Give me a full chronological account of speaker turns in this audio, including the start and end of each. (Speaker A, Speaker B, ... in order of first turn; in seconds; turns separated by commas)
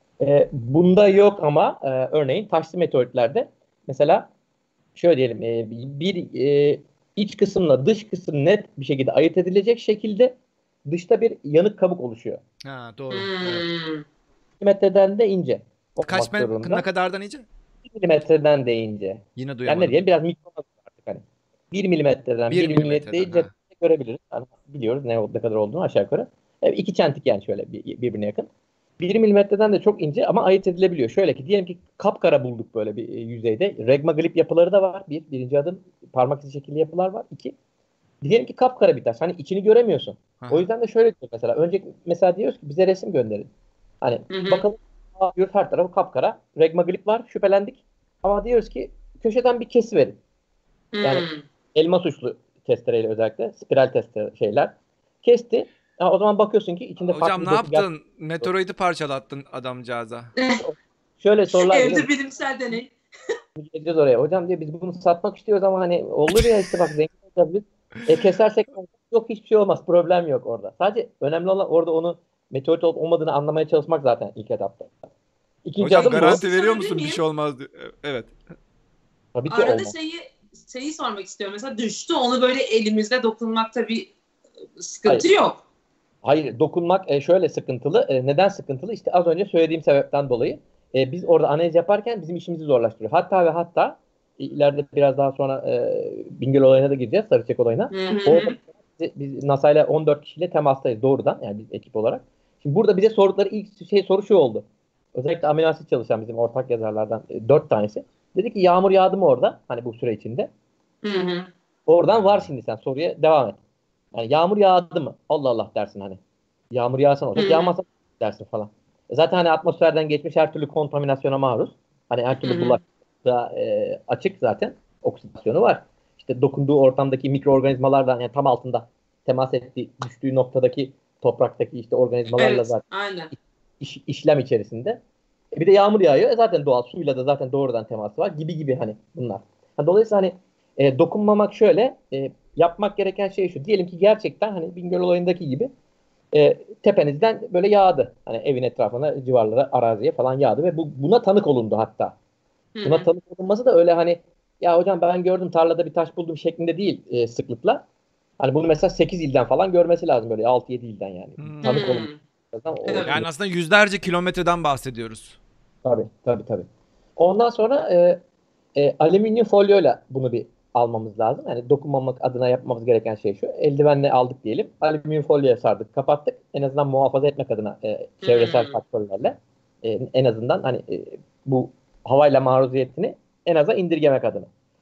Speaker A: 0.2-4.3, Speaker A: 5.0-12.4, Speaker B: 12.6-13.7, Speaker C: 13.1-14.1, Speaker A: 14.6-16.8, Speaker B: 16.0-17.5, Speaker A: 17.9-28.5, Speaker B: 19.4-20.0, Speaker B: 22.5-23.5, Speaker A: 29.0-37.5, Speaker A: 38.2-43.5, Speaker B: 40.4-40.7, Speaker A: 44.0-50.2, Speaker C: 44.3-44.6, Speaker C: 50.9-51.4, Speaker A: 51.0-57.9, Speaker B: 57.0-60.3, Speaker C: 60.4-60.6, Speaker A: 60.6-62.1, Speaker C: 61.5-62.9, Speaker A: 63.6-75.1, Speaker A: 75.7-76.4, Speaker B: 75.8-78.3, Speaker C: 76.0-77.2, Speaker A: 79.3-79.9, Speaker C: 79.5-84.1, Speaker C: 84.8-85.6, Speaker A: 86.2-110.5, Speaker C: 97.9-98.6, Speaker C: 111.0-111.5, Speaker A: 111.9-113.6, Speaker B: 112.1-112.5, Speaker A: 114.1-116.2, Speaker A: 116.7-132.8, Speaker C: 117.4-117.7, Speaker C: 122.4-122.8, Speaker C: 132.4-133.3, Speaker A: 133.8-135.0, Speaker A: 135.6-145.7, Speaker A: 146.3-152.2, Speaker C: 152.8-153.1, Speaker A: 152.8-157.8, Speaker A: 158.4-163.3, Speaker B: 161.4-162.0, Speaker C: 161.6-162.2, Speaker C: 162.8-163.1, Speaker B: 163.1-165.4, Speaker A: 165.8-166.7, Speaker A: 167.2-168.2, Speaker A: 168.8-184.5, Speaker C: 178.2-178.8